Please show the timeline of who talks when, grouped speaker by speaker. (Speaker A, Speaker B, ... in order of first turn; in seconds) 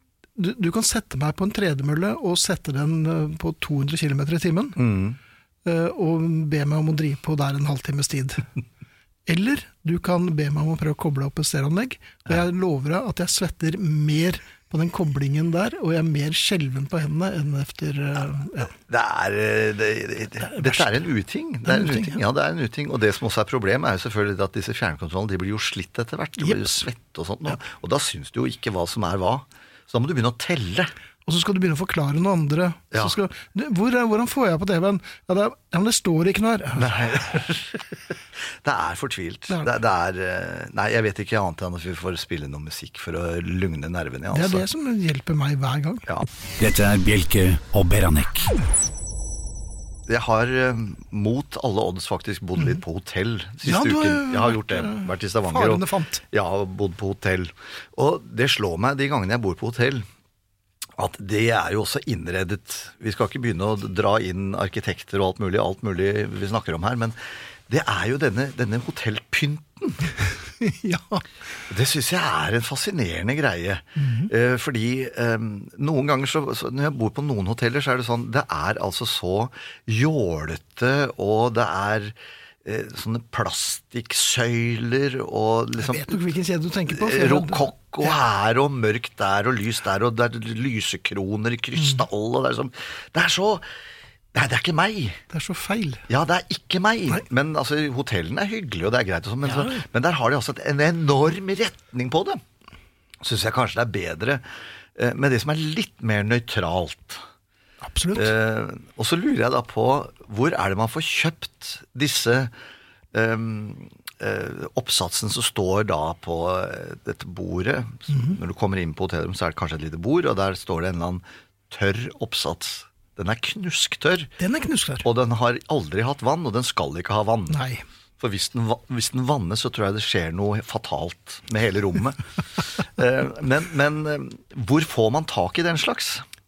Speaker A: 0.4-4.8, 5.7-8.5, 9.3-18.7, 20.4-20.9, 21.6-22.2, 26.4-26.8, 31.3-37.1, 44.3-46.1, 53.6-56.2, 70.6-71.2, 74.0-74.3, 85.8-88.2, 95.3-96.0, 99.4-99.8, 107.8-108.3, 118.1-118.4, 124.4-125.1, 127.5-127.8
Speaker B: 4.8-5.2, 18.7-30.9, 36.8-38.0, 38.6-44.7, 50.1-60.1, 61.0-67.2, 67.7-70.1, 71.7-86.2, 86.9-93.7, 94.3-95.2, 96.1-102.4, 103.2-104.4, 105.0-107.2, 108.2-112.5, 113.1-124.3, 125.0-127.6, 128.2-132.3, 132.8-136.2
Speaker C: 46.6-48.5